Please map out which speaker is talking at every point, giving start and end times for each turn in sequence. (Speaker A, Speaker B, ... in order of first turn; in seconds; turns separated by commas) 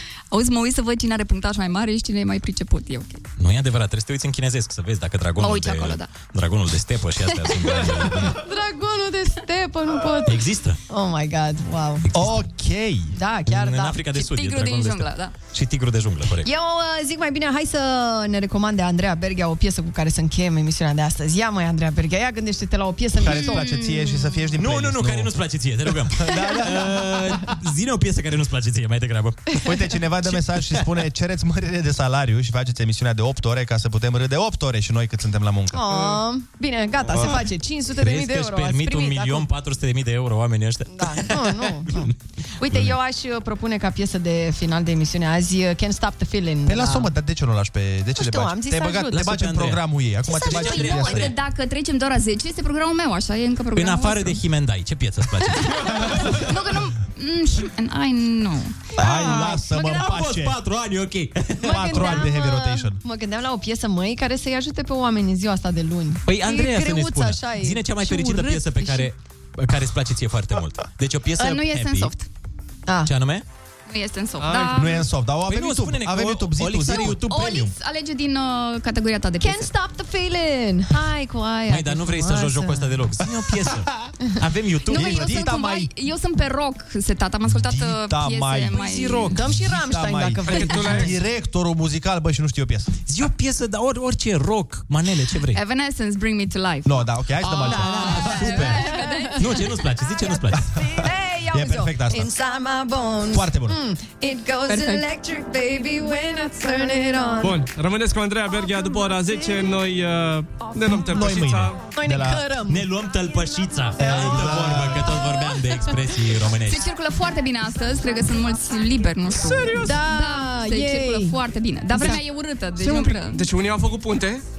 Speaker A: 0.3-3.2, Speaker B: 3.4-8.4, Speaker A: 5.4-6.1, Speaker C: 8.2-12.1, Speaker B: 10.2-10.8, Speaker D: 12.1-13.2, Speaker C: 13.1-14.2, Speaker B: 13.4-16.5, Speaker A: 14.1-15.3, Speaker C: 16.4-23.8, Speaker D: 23.2-25.3, Speaker A: 23.7-24.3, Speaker B: 24.6-29.4, Speaker D: 26.2-27.0, Speaker C: 29.5-29.8, Speaker D: 29.6-35.9, Speaker B: 30.2-30.7, Speaker C: 35.7-39.5, Speaker B: 38.0-42.1, Speaker C: 40.9-47.1, Speaker D: 46.6-51.4, Speaker C: 48.2-49.1, Speaker B: 49.1-51.4, Speaker A: 50.4-54.4, Speaker B: 53.7-56.3, Speaker A: 56.0-58.8, Speaker D: 59.0-60.5, Speaker B: 59.0-62.2, Speaker C: 59.1-59.5, Speaker C: 61.6-69.1, Speaker D: 61.6-63.0, Speaker B: 66.2-72.2, Speaker A: 71.4-72.2, Speaker B: 73.0-73.4, Speaker A: 73.9-75.0, Speaker E: 74.4-75.0, Speaker D: 74.7-77.2, Speaker B: 75.5-77.7, Speaker A: 77.3-79.7, Speaker C: 79.4-83.0, Speaker B: 81.7-85.5, Speaker A: 84.9-89.4, Speaker D: 84.9-85.9, Speaker D: 87.5-92.9, Speaker C: 88.9-91.1, Speaker E: 90.5-91.1, Speaker B: 93.1-95.6, Speaker A: 95.5-97.0, Speaker D: 96.8-98.3, Speaker C: 97.5-99.4, Speaker B: 97.6-100.6, Speaker A: 98.2-99.6, Speaker C: 100.7-107.6, Speaker D: 100.8-102.3, Speaker D: 103.3-103.8, Speaker E: 107.4-111.8, Speaker D: 111.0-112.4, Speaker C: 111.9-112.8, Speaker B: 112.7-116.8, Speaker D: 114.0-115.2, Speaker A: 116.6-123.4, Speaker E: 119.3-120.0, Speaker C: 119.8-121.4, Speaker C: 121.9-122.2, Speaker C: 122.8-123.2, Speaker E: 123.2-124.4